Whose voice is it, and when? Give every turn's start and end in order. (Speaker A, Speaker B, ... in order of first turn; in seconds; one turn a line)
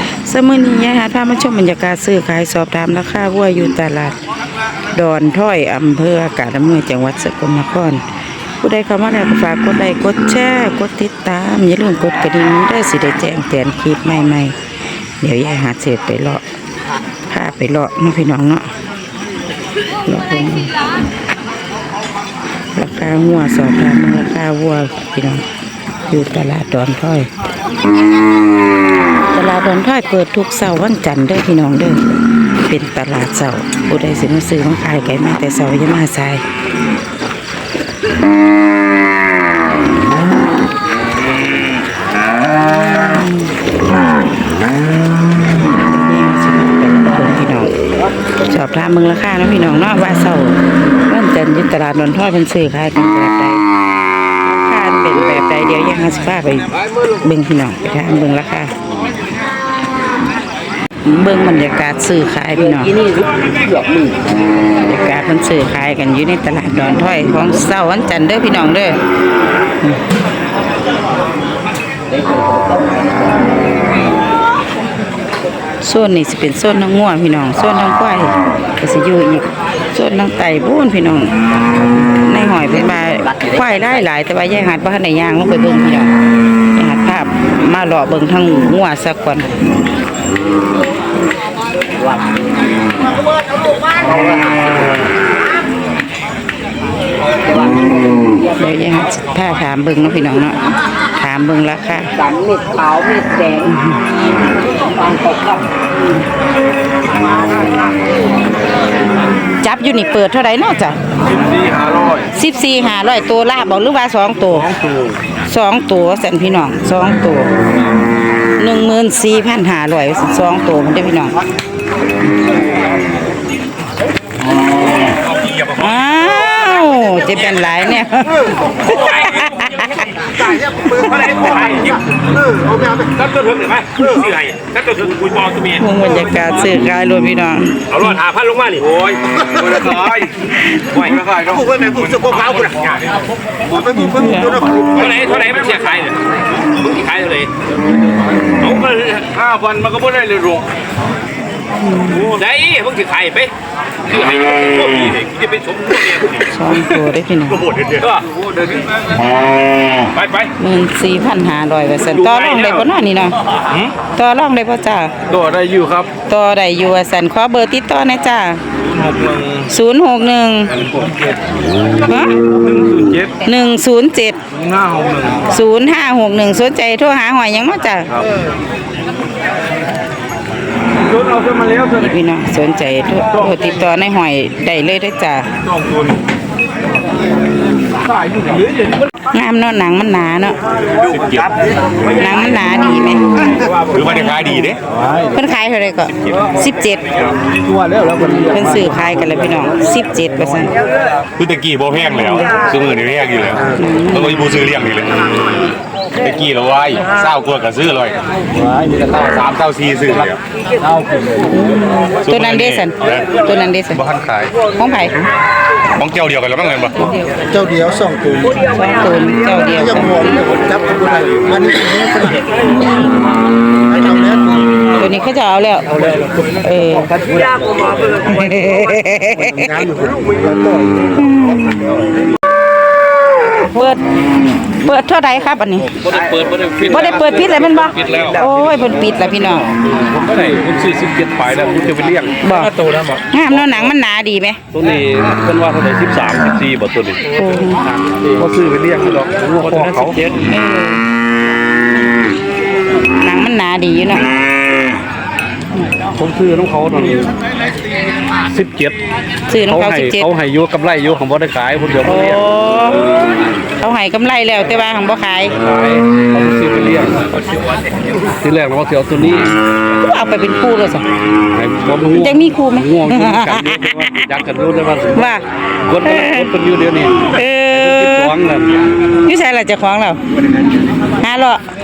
Speaker A: 0.2-4.2
Speaker A: 4.9-8.0
Speaker A: 8.6-14.5
Speaker A: 15.2-16.4
Speaker A: 17.3-18.7
Speaker A: 20.0-20.7
Speaker A: 22.7-25.4
Speaker A: 26.1-27.3
Speaker A: 29.3-32.0
Speaker A: 32.6-36.4
Speaker A: 42.8-43.5
Speaker A: 45.6-47.7
Speaker A: 48.4-53.6
Speaker A: 54.5-58.7
Speaker A: 61.0-63.0
Speaker B: 62.5-64.2
Speaker A: 64.8-69.0
Speaker B: 72.1-73.0
Speaker A: 75.8-81.3
Speaker A: 82.1-86.1
Speaker B: 82.7-84.0
Speaker A: 86.7-89.5
Speaker B: 92.0-92.4
Speaker B: 93.9-94.5
Speaker B: 97.5-98.5
Speaker A: 98.6-100.6
Speaker A: 101.2-102.1
Speaker B: 102.2-103.7
Speaker A: 103.6-104.0
Speaker B: 104.7-105.7
Speaker A: 109.6-111.0
Speaker C: 111.4-112.2
Speaker A: 112.3-114.7
Speaker C: 114.5-115.2
Speaker A: 115.5-117.5
Speaker A: 118.6-121.4
Speaker C: 125.3-125.7
Speaker A: 125.7-131.3
Speaker C: 128.8-129.7
Speaker C: 130.5-135.7
Speaker A: 135.7-138.2
Speaker C: 137.9-140.3
Speaker C: 140.9-143.1
Speaker A: 143.8-144.9
Speaker C: 144.9-146.2
Speaker C: 146.7-147.5
Speaker C: 148.6-150.7
Speaker A: 151.8-152.2
Speaker C: 152.2-153.5
Speaker C: 154.1-156.4
Speaker A: 156.3-157.7
Speaker C: 157.6-158.9
Speaker C: 160.1-160.5
Speaker A: 160.6-163.3
Speaker C: 162.1-162.8
Speaker A: 164.1-165.1
Speaker C: 165.3-166.1
Speaker A: 166.3-168.6
Speaker C: 168.9-169.7
Speaker A: 169.7-170.7
Speaker C: 170.7-171.3
Speaker A: 172.0-172.3
Speaker C: 172.5-173.3
Speaker A: 173.4-174.4
Speaker C: 174.6-175.4
Speaker A: 175.5-178.1
Speaker C: 181.2-181.8
Speaker A: 181.8-185.5
Speaker C: 188.3-188.7
Speaker A: 189.3-190.6
Speaker D: 191.0-191.6
Speaker A: 192.1-194.7
Speaker D: 193.6-194.8
Speaker A: 195.3-197.1
Speaker C: 197.5-198.8
Speaker A: 198.1-200.7
Speaker D: 201.4-205.6
Speaker A: 203.8-204.6
Speaker D: 206.1-208.2
Speaker D: 208.8-210.4
Speaker A: 211.5-214.0
Speaker D: 212.2-213.4
Speaker D: 213.9-214.5
Speaker A: 214.7-215.2
Speaker D: 215.9-217.1
Speaker E: 217.5-218.4
Speaker A: 218.6-220.5
Speaker E: 220.7-222.3
Speaker E: 224.0-224.5
Speaker A: 225.0-227.2
Speaker A: 228.2-229.9
Speaker A: 231.1-231.8
Speaker A: 233.7-234.0
Speaker A: 234.7-235.9
Speaker C: 236.0-238.3
Speaker A: 236.9-239.7
Speaker C: 239.8-243.9
Speaker A: 242.4-242.7
Speaker A: 243.3-244.6
Speaker C: 244.7-247.2
Speaker A: 247.3-247.8
Speaker C: 248.0-250.4
Speaker A: 250.4-251.0
Speaker A: 253.2-254.3
Speaker C: 256.1-257.4
Speaker C: 258.5-259.0
Speaker A: 259.5-260.3
Speaker C: 259.6-262.4
Speaker A: 262.0-265.5
Speaker C: 265.6-267.5
Speaker C: 268.2-269.5
Speaker A: 270.0-271.0
Speaker C: 271.5-275.3
Speaker A: 272.1-274.1
Speaker A: 275.1-275.4
Speaker C: 275.9-278.9
Speaker A: 276.0-276.5
Speaker A: 277.2-278.3
Speaker A: 279.2-280.2
Speaker A: 281.2-281.6